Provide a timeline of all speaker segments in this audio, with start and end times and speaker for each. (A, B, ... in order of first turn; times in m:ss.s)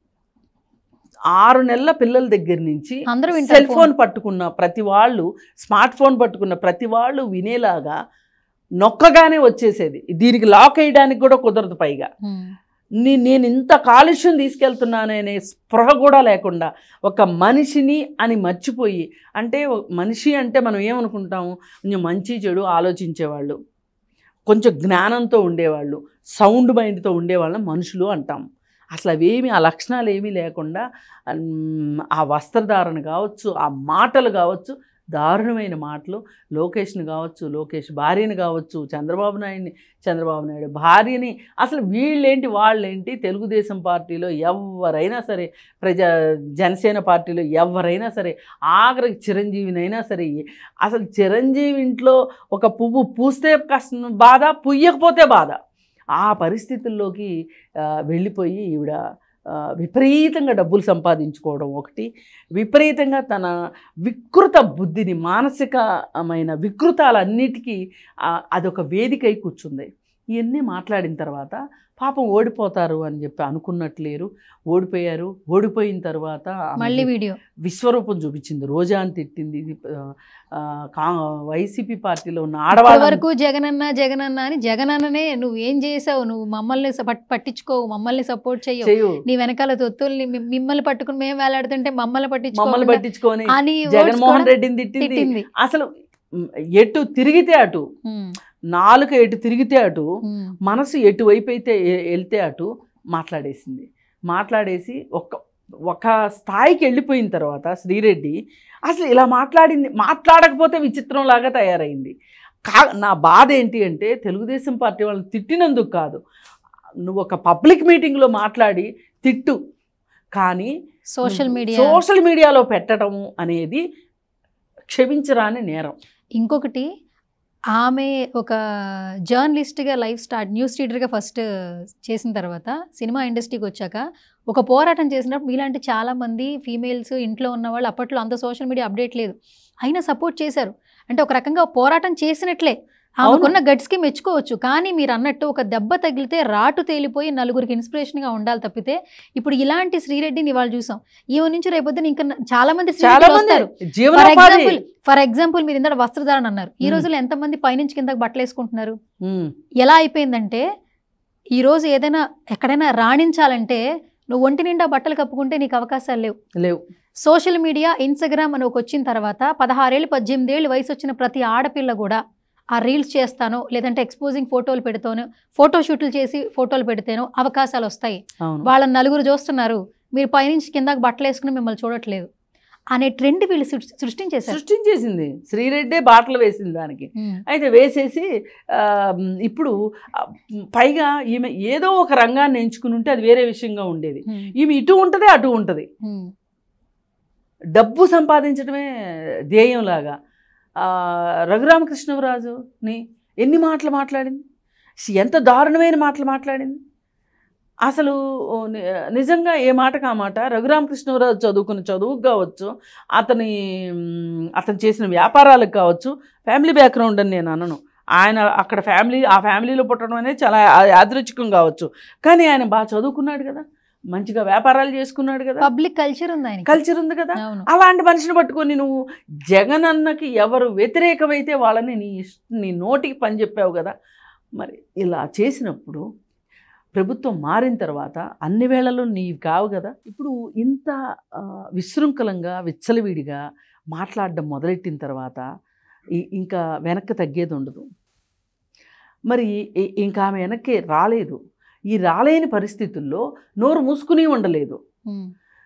0:01.4-0:08.0 A
0:03.1-0:03.9 B
0:08.8-0:12.1 A
0:13.0-0:23.6 A
0:24.5-0:28.4 A
0:29.0-0:55.6 A
0:56.2-0:57.3 A
0:58.1-0:59.0 A
0:59.5-1:03.5 A
1:04.1-1:17.1 A
1:16.8-1:17.4 B
1:17.6-1:23.2 A
1:22.7-1:33.0 B
1:28.8-1:29.2 A
1:32.6-1:35.9 A
1:33.5-1:35.5 B
1:36.8-1:37.8 A
1:38.1-1:38.4 B
1:38.7-1:40.1 A
1:40.3-1:40.5 B
1:40.6-1:45.4 A
1:45.9-1:48.4 A
1:48.9-1:52.1 A
1:52.7-1:56.2 A
1:57.1-1:59.6 A
2:00.4-2:00.7 A
2:01.2-2:02.0 B
2:01.2-2:03.8 A
2:04.9-2:06.0 A
2:06.4-2:06.9 B
2:07.8-2:08.6 B
2:09.3-2:11.4 B
2:12.1-2:39.0 B
2:23.2-2:23.6 A
2:33.0-2:34.8 A
2:39.2-2:39.5 A
2:39.8-2:40.6 B
2:41.6-2:46.3 B
2:47.2-2:52.2 B
2:52.8-3:02.3 B
2:58.4-2:58.7 A
3:03.0-3:04.6 B
3:04.5-3:15.9 A
3:16.0-3:16.3 B
3:17.8-3:18.9 A
3:19.5-3:20.2 A
3:20.8-3:24.4 A
3:25.0-3:26.8 A
3:27.9-3:45.7 A
3:45.6-3:46.8 B
3:46.7-3:48.9 A
3:47.4-3:47.7 B
3:49.5-3:53.9 A
3:54.6-3:56.0 A
3:57.0-4:03.4 A
4:03.9-4:05.5 A
4:06.2-4:07.9 A
4:09.3-4:11.4 A
4:11.9-4:14.8 A